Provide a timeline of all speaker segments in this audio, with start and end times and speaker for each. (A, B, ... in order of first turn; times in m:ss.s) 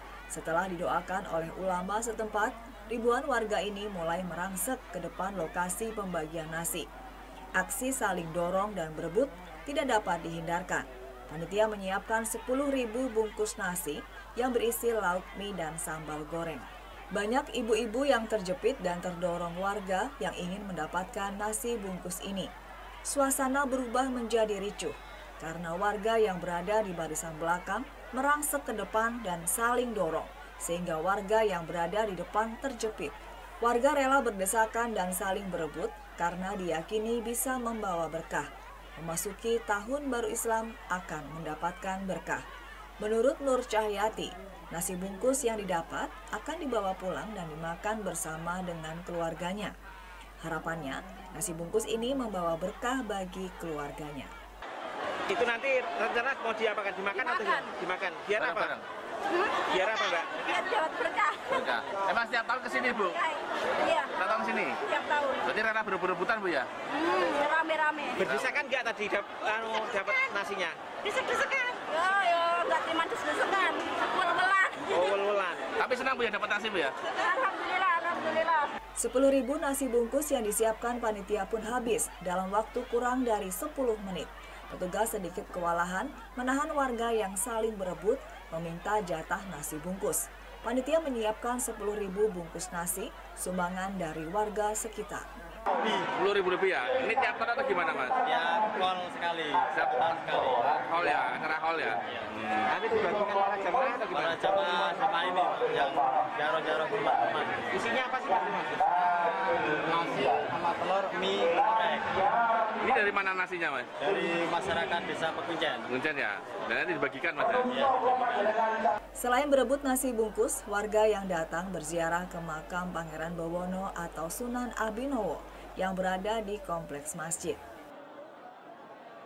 0:00.3-0:06.9 A
0:07.6-0:22.5 A
0:23.1-0:42.4 A
0:43.0-0:49.8 A
0:50.4-0:54.3 A
0:55.3-0:58.7 B
0:57.2-0:57.6 C
0:58.4-0:58.8 D
0:59.3-0:59.7 C
0:59.7-1:00.4 B
1:00.4-1:01.5 C
1:01.5-1:03.2 D
1:03.1-1:04.1 C
1:04.2-1:04.8 D
1:04.8-1:05.4 C
1:05.4-1:06.7 D
1:06.9-1:08.2 C
1:08.2-1:10.8 B
1:08.2-1:08.6 D
1:11.0-1:15.0 C
1:14.9-1:15.7 B
1:15.8-1:17.0 D
1:17.0-1:18.7 C
1:19.0-1:35.3 A
1:35.9-1:38.2 D
1:38.2-1:40.8 E
1:40.7-1:42.8 D
1:42.7-1:44.1 B
1:43.9-1:48.4 E
1:47.9-1:49.0 B
1:49.5-1:52.3 E
1:52.7-1:53.9 D
1:54.0-1:55.9 E
1:55.9-1:58.7 D
1:59.2-2:07.6 A